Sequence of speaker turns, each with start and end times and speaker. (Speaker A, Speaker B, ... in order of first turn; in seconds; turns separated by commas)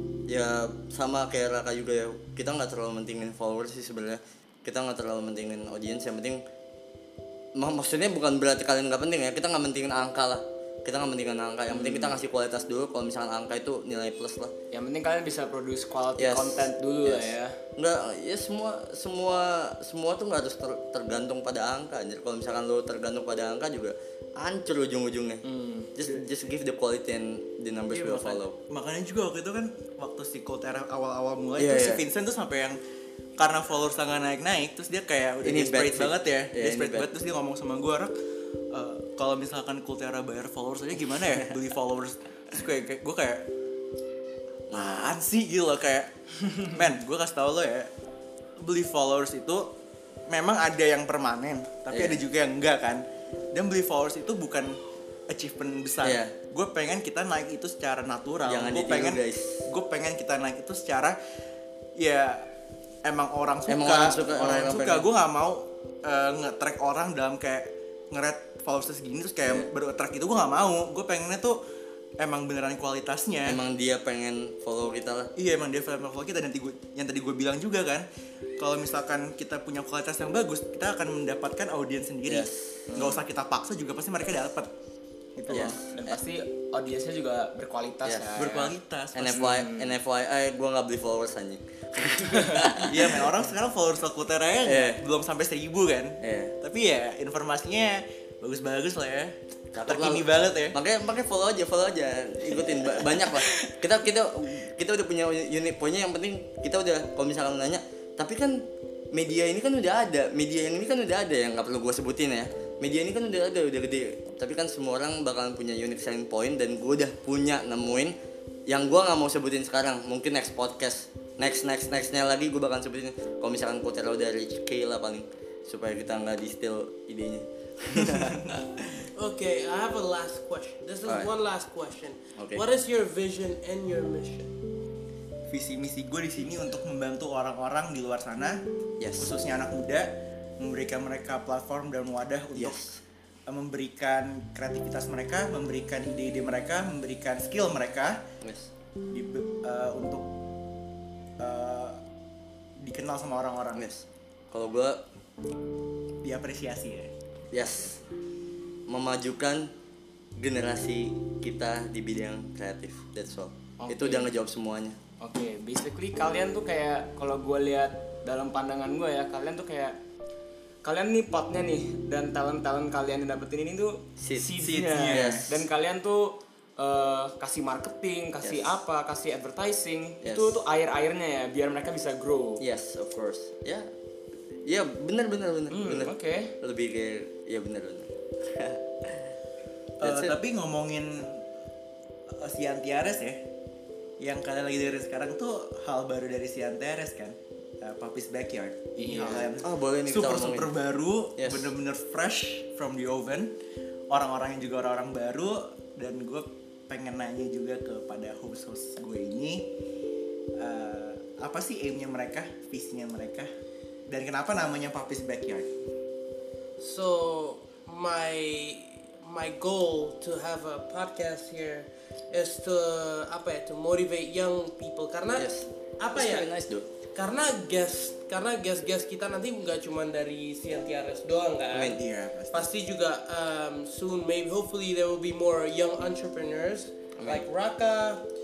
Speaker A: 0.3-6.4, Speaker A: 7.6-14.5, Speaker B: 11.7-12.2, Speaker B: 14.7-17.6, Speaker A: 16.2-25.4, Speaker B: 25.4-25.9, Speaker A: 25.9-28.6, Speaker C: 27.9-32.8, Speaker A: 31.6-32.0, Speaker C: 33.4-38.1, Speaker A: 35.4-37.1, Speaker C: 38.7-43.5, Speaker A: 44.7-45.2, Speaker C: 44.7-47.9, Speaker C: 48.6-49.7, Speaker C: 50.3-54.8, Speaker A: 51.9-52.2, Speaker C: 55.3-61.2, Speaker A: 56.0-56.3, Speaker A: 58.5-59.7, Speaker C: 62.0-62.5, Speaker C: 63.0-71.6, Speaker A: 63.7-65.1, Speaker C: 72.2-73.6, Speaker A: 73.5-75.3, Speaker C: 75.4-78.1, Speaker C: 78.6-84.7, Speaker A: 82.3-83.0, Speaker B: 82.9-83.2, Speaker C: 85.4-85.8, Speaker A: 85.5-86.2, Speaker B: 85.5-88.7, Speaker C: 88.3-89.6, Speaker A: 89.2-93.3, Speaker B: 89.3-89.9, Speaker B: 92.4-92.8, Speaker C: 92.8-100.8, Speaker A: 94.6-95.0, Speaker A: 96.2-96.5, Speaker A: 99.7-118.2, Speaker C: 102.5-103.7, Speaker A: 118.7-129.0, Speaker D: 129.2-134.5, Speaker A: 132.4-132.6, Speaker C: 135.5-138.6, Speaker A: 139.0-139.3, Speaker C: 139.2-142.8, Speaker A: 142.6-143.0, Speaker C: 143.5-148.2, Speaker A: 148.4-148.7, Speaker C: 149.1-150.3, Speaker C: 151.4-152.0, Speaker C: 152.8-153.9, Speaker A: 153.8-155.0, Speaker C: 156.2-157.1, Speaker A: 157.5-158.0, Speaker A: 158.9-159.7, Speaker A: 160.4-165.0, Speaker B: 163.8-164.3, Speaker B: 165.2-170.0, Speaker B: 170.8-182.6, Speaker A: 174.2-174.5, Speaker C: 174.6-175.5, Speaker A: 175.1-175.5, Speaker A: 178.4-178.7, Speaker A: 180.2-180.6, Speaker A: 182.6-183.9, Speaker A: 184.6-189.3, Speaker B: 185.7-186.6, Speaker C: 190.0-191.5, Speaker A: 190.0-190.4, Speaker C: 192.3-193.4, Speaker C: 194.2-203.5, Speaker B: 199.0-199.5, Speaker A: 199.6-200.7, Speaker A: 201.4-201.7, Speaker C: 204.1-209.7, Speaker C: 210.6-213.5, Speaker C: 214.1-215.7, Speaker D: 216.8-226.5, Speaker A: 225.4-226.9, Speaker D: 227.1-238.3, Speaker A: 231.7-232.0, Speaker C: 231.9-232.7, Speaker A: 237.2-237.5